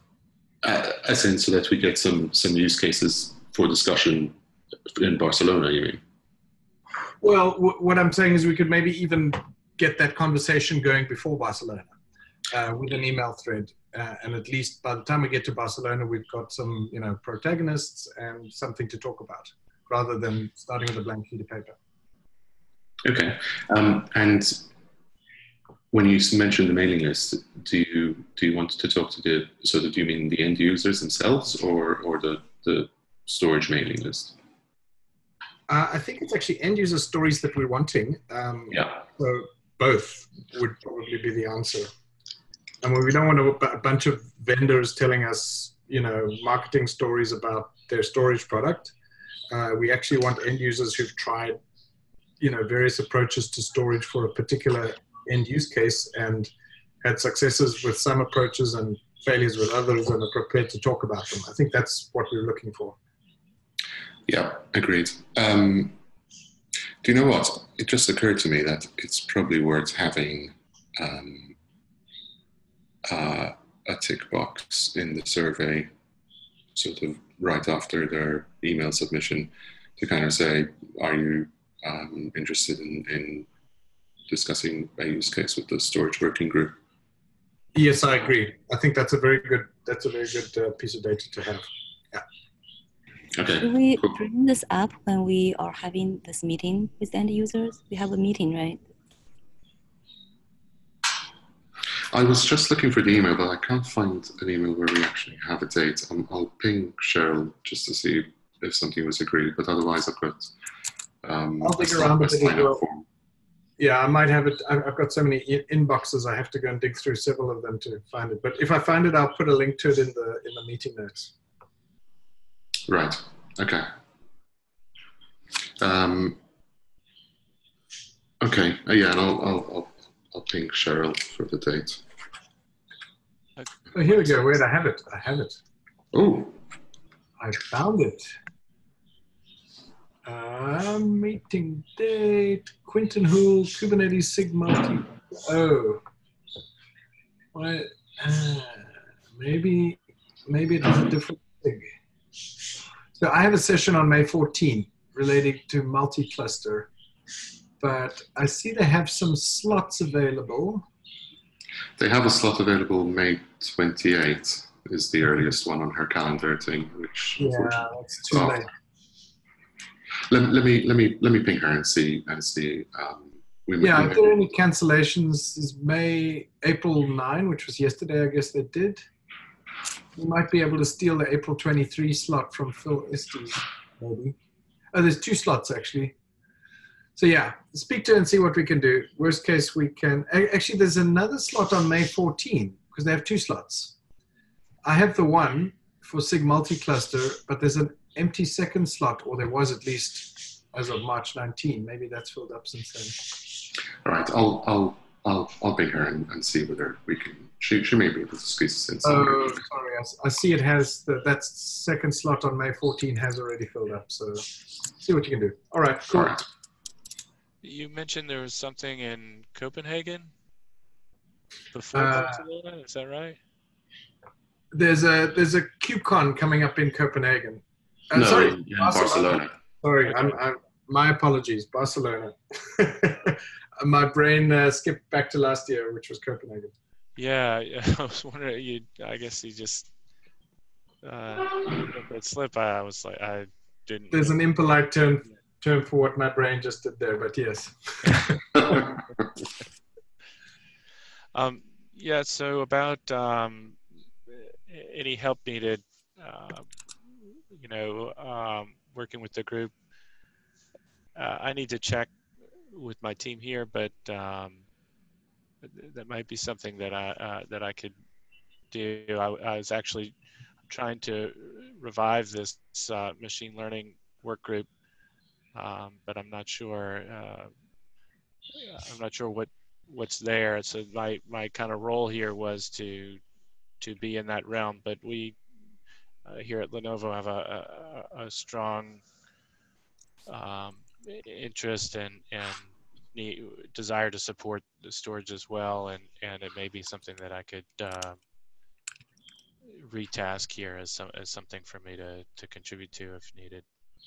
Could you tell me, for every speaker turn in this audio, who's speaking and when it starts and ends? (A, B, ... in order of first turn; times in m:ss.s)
0:00.6-0:04.4 A
0:05.0-0:06.0 A
0:07.2-0:11.9 B
0:12.5-0:21.8 B
0:23.0-0:24.7 A
0:25.9-0:34.4 A
0:35.7-0:41.9 B
0:38.7-0:39.0 A
0:42.8-0:48.9 B
0:49.5-0:51.6 B
0:52.4-0:56.5 B
0:57.0-1:03.0 B
1:04.3-1:06.0 A
1:07.0-1:11.6 A
1:13.1-1:15.9 A
1:16.7-1:23.5 A
1:24.3-1:26.8 A
1:27.7-1:32.2 B
1:33.4-1:34.1 A
1:33.6-1:38.8 C
1:42.1-1:50.5 A
1:51.2-1:53.0 A
1:51.6-1:52.8 B
1:53.8-2:01.3 B
2:02.9-2:03.9 A
2:05.8-2:06.4 A
2:08.4-2:12.0 A
2:13.6-2:14.6 D
2:13.9-2:15.6 B
2:16.1-2:16.6 A
2:17.4-2:18.3 B
2:20.2-2:26.0 B
2:27.5-2:31.9 B
2:33.2-2:36.9 B
2:37.8-2:40.8 B
2:42.0-2:48.6 A
2:47.4-2:48.7 B
2:50.3-2:54.3 A
2:53.8-2:59.0 B
3:00.2-3:04.3 B
3:04.9-3:06.1 B
3:07.2-3:13.9 B
3:14.8-3:23.4 B
3:24.0-3:29.6 A
3:29.0-3:36.4 B
3:36.1-3:36.4 A
3:37.6-3:40.3 D
3:41.7-3:43.4 D
3:41.9-3:42.4 B
3:44.7-3:56.7 B
3:48.1-3:49.6 A
3:50.0-3:50.4 D
3:57.2-3:59.9 D
4:01.0-4:04.4 D
4:04.1-4:08.9 B
4:08.0-4:08.9 D
4:11.3-4:13.8 D
4:14.3-4:16.7 D
4:17.5-4:19.7 D
4:21.2-4:22.1 D
4:22.7-4:24.6 D
4:25.6-4:27.9 D
4:28.7-4:30.1 D
4:30.7-4:34.7 D
4:35.5-4:37.5 D
4:38.6-4:43.2 D
4:43.8-4:45.4 D
4:46.2-4:49.0 D
4:50.3-4:58.2 D
4:59.8-5:03.6 D